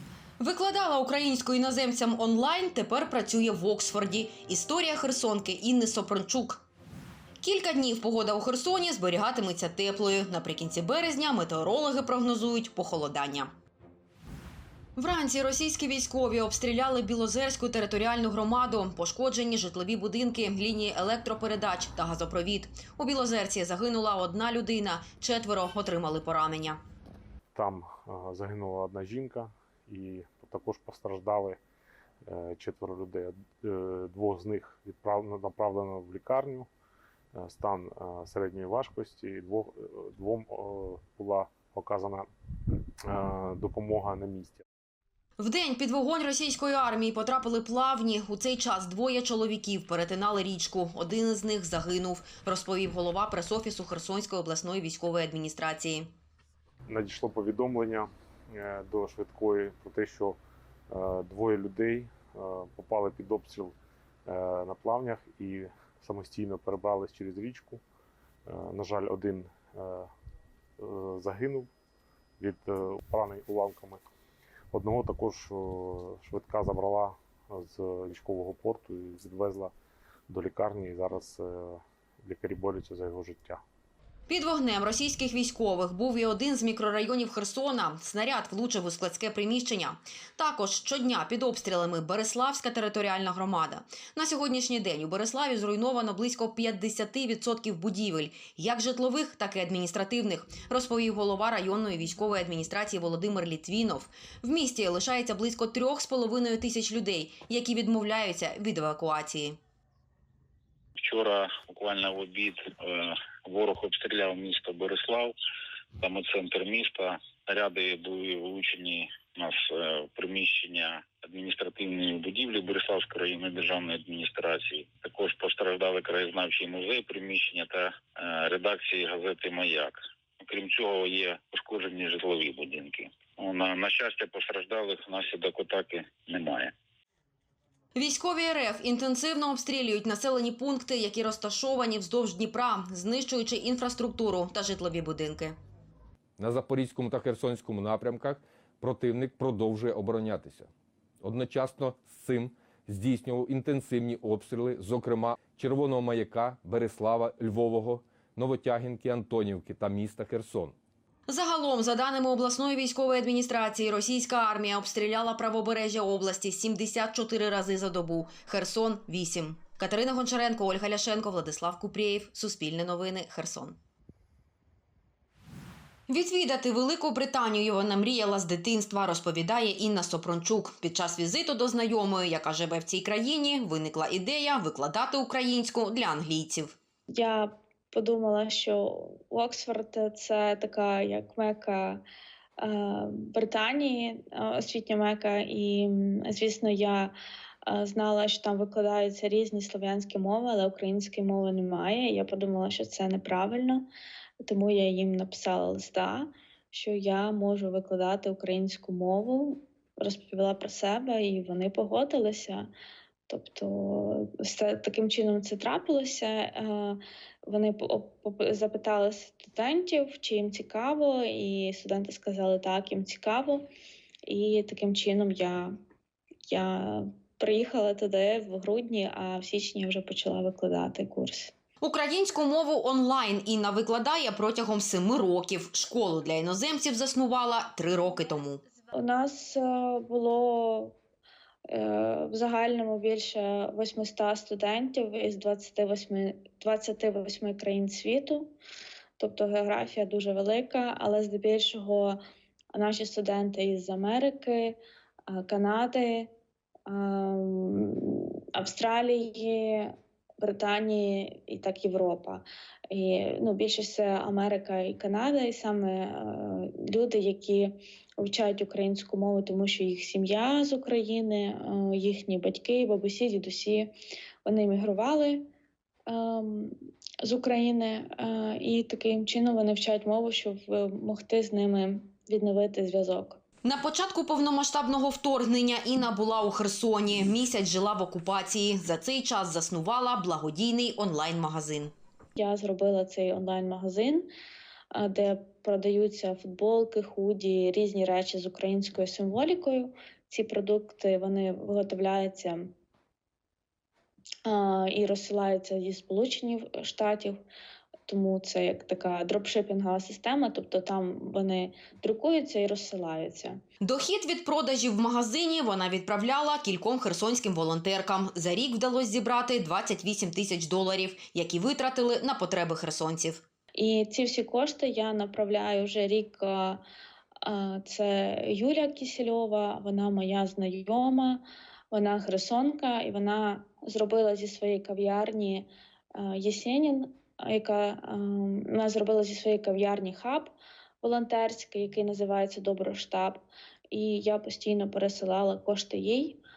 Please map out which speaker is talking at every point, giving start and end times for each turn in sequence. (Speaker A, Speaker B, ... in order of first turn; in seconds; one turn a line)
Speaker A: 0.4-6.7
Speaker A: 7.4-13.5
Speaker A: 15.0-26.8
Speaker B: 27.5-31.6
Speaker B: 32.2-36.7
Speaker B: 37.3-42.3
Speaker B: 43.1-44.6
Speaker A: 45.4-56.1
Speaker B: 56.9-60.4
Speaker B: 60.9-63.8
Speaker B: 64.3-67.8
Speaker B: 68.5-70.1
Speaker B: 70.8-71.7
Speaker B: 72.4-74.0
Speaker B: 74.7-79.7
Speaker B: 80.3-83.6
Speaker A: 84.3-109.6
Speaker C: 111.0-115.4
Speaker C: 116.0-136.7
Speaker A: 138.0-145.6
Speaker D: 146.4-150.7
Speaker D: 151.2-160.8
Speaker A: 161.3-173.8
Speaker A: 176.1-186.8
Speaker E: 187.1-192.0
Speaker E: 192.6-197.1
Speaker E: 197.7-203.9
Speaker E: 204.4-212.7
Speaker E: 213.3-223.7
Speaker E: 224.3-225.7
Speaker E: 226.5-231.5
Speaker A: 231.8-238.6
Speaker E: 238.9-241.0
Speaker E: 241.7-248.5
Speaker E: 249.2-252.2
Speaker E: 252.7-256.3
Speaker E: 256.9-273.9
Speaker E: 274.4-275.5
Speaker E: 276.1-283.4
Speaker A: 283.6-291.9
Speaker E: 292.4-294.3
Speaker E: 294.9-302.7
Speaker E: 304.5-307.4
Speaker E: 308.1-313.6
Speaker A: 313.8-323.4
Speaker E: 323.8-326.8
Speaker E: 327.4-346.4